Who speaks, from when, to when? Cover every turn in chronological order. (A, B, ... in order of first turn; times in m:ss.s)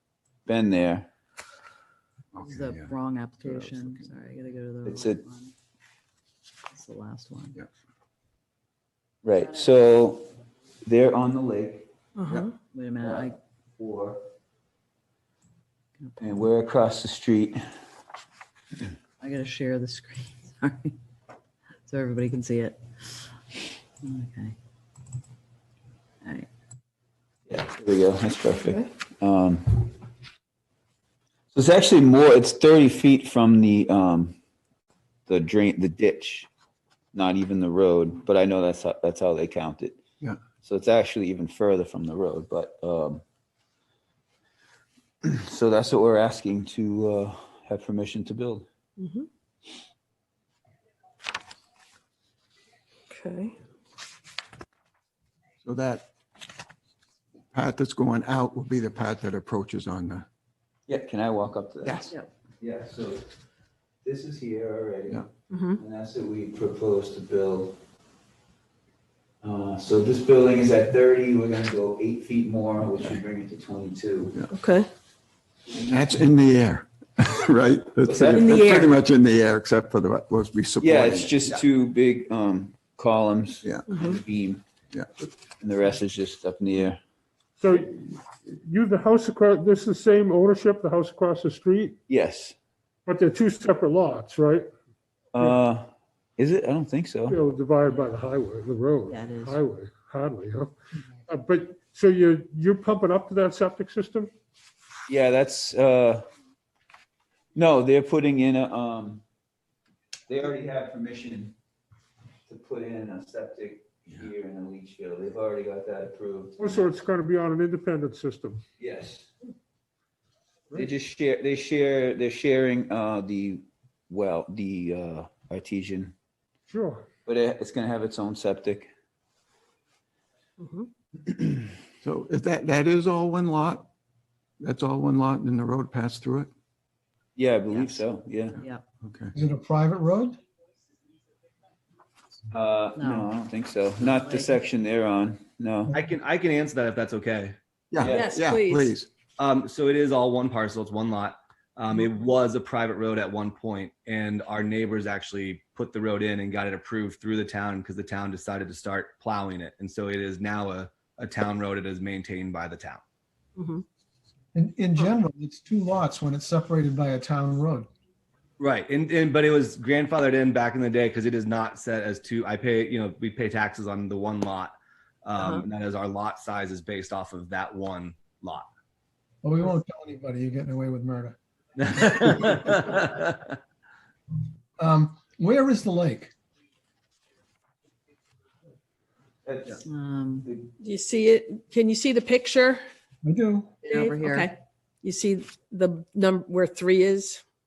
0:00.4-0:01.1 A
0:02.3-0:04.1 B
0:02.4-0:05.5 C
0:04.8-0:05.2 A
0:06.7-0:07.6 C
0:09.2-0:10.3 A
0:10.8-0:11.9 A
0:12.2-0:12.5 D
0:12.7-0:13.4 C
0:13.0-0:14.2 A
0:16.0-0:16.5 C
0:16.2-0:17.6 A
0:19.2-0:21.0 C
0:21.8-0:22.8 C
0:24.0-0:24.6 C
0:26.2-0:26.5 C
0:27.5-0:29.9 A
0:31.5-0:34.4 A
0:35.3-0:36.5 A
0:37.1-0:40.0 A
0:40.6-0:43.2 A
0:45.2-0:48.7 A
0:49.0-0:49.3 D
0:53.1-0:53.5 D
0:55.6-0:56.1 B
0:57.5-1:00.2 B
1:00.9-1:02.0 A
1:01.8-1:02.1 B
1:02.6-1:03.2 A
1:04.0-1:05.2 A
1:05.5-1:05.8 D
1:05.8-1:07.8 A
1:09.4-1:14.3 A
1:14.5-1:14.9 D
1:15.7-1:21.6 B
1:18.0-1:18.6 A
1:18.3-1:18.8 D
1:20.8-1:24.6 A
1:23.9-1:24.2 D
1:25.6-1:27.0 A
1:27.6-1:32.0 E
1:32.1-1:32.6 A
1:33.0-1:34.7 E
1:35.3-1:37.4 A
1:37.3-1:40.7 E
1:37.8-1:38.1 C
1:39.0-1:39.6 C
1:41.3-1:44.3 E
1:45.1-1:46.2 A
1:47.5-1:49.2 A
1:50.3-1:51.5 A
1:52.5-1:56.8 A
1:56.6-1:58.6 E
1:58.8-1:59.3 A
2:00.7-2:06.1 A
2:06.7-2:07.0 E
2:07.2-2:08.9 A
2:10.6-2:10.9 D
2:12.0-2:13.9 B
2:14.6-2:16.5 B
2:17.4-2:18.6 A
2:17.7-2:18.0 C
2:19.0-2:19.3 B
2:19.3-2:20.4 F
2:22.5-2:25.9 A
2:23.0-2:23.3 C
2:24.1-2:24.6 C
2:25.9-2:27.6 G
2:27.9-2:29.1 B
2:28.0-2:28.3 A
2:28.0-2:28.9 D
2:29.4-2:43.0 G
2:43.6-2:43.8 D
2:44.5-2:47.9 F
2:48.6-2:58.6 G
2:55.4-2:55.6 D
2:59.4-3:01.4 F
3:01.8-3:03.4 G
3:04.8-3:06.3 F
3:09.4-3:09.8 A
3:09.8-3:10.5 C
3:10.8-3:12.8 D
3:13.2-3:13.7 F
3:13.8-3:14.5 C
3:13.9-3:17.4 D